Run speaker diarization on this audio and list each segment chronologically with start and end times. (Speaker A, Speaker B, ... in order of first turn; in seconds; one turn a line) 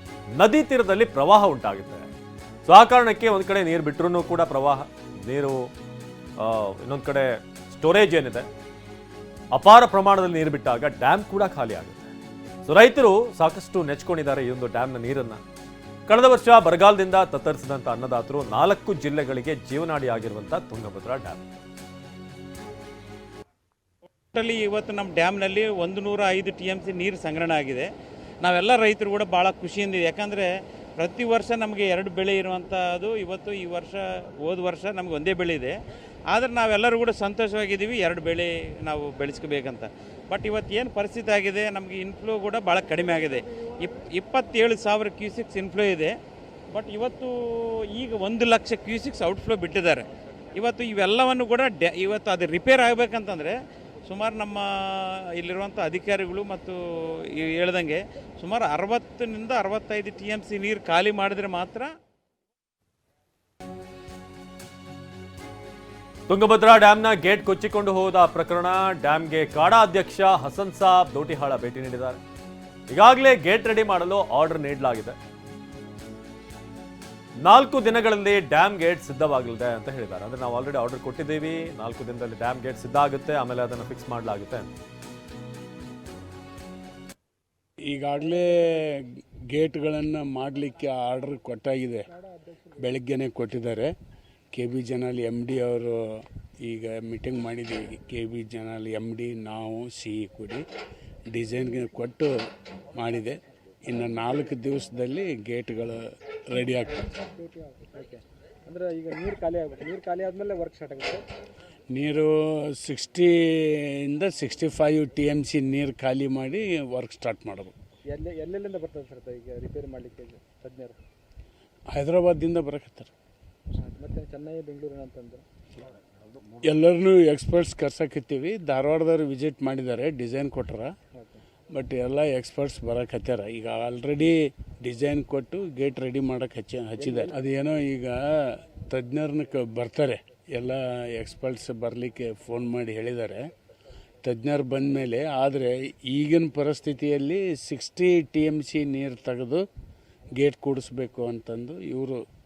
Speaker A: 0.3-2.1
Speaker A: 2.7-5.7
Speaker A: 6.4-8.5
Speaker A: 9.5-12.1
Speaker A: 12.7-15.4
Speaker A: 16.1-21.4
Speaker B: 24.3-27.9
Speaker B: 28.4-35.8
Speaker B: 36.3-46.1
Speaker B: 46.7-56.8
Speaker B: 57.4-61.9
Speaker A: 66.3-72.2
Speaker A: 72.9-75.2
Speaker A: 77.4-84.7
Speaker C: 87.9-92.0
Speaker C: 92.8-93.9
Speaker C: 94.5-100.6
Speaker C: 101.3-102.3
Speaker C: 103.0-107.1
Speaker D: 107.1-111.2
Speaker C: 111.9-117.8
Speaker D: 118.1-121.0
Speaker C: 121.9-123.1
Speaker D: 123.8-125.5
Speaker C: 126.6-130.9
Speaker D: 131.2-131.4
Speaker C: 131.7-143.5
Speaker D: 137.0-137.3
Speaker C: 144.2-149.6
Speaker C: 150.4-152.2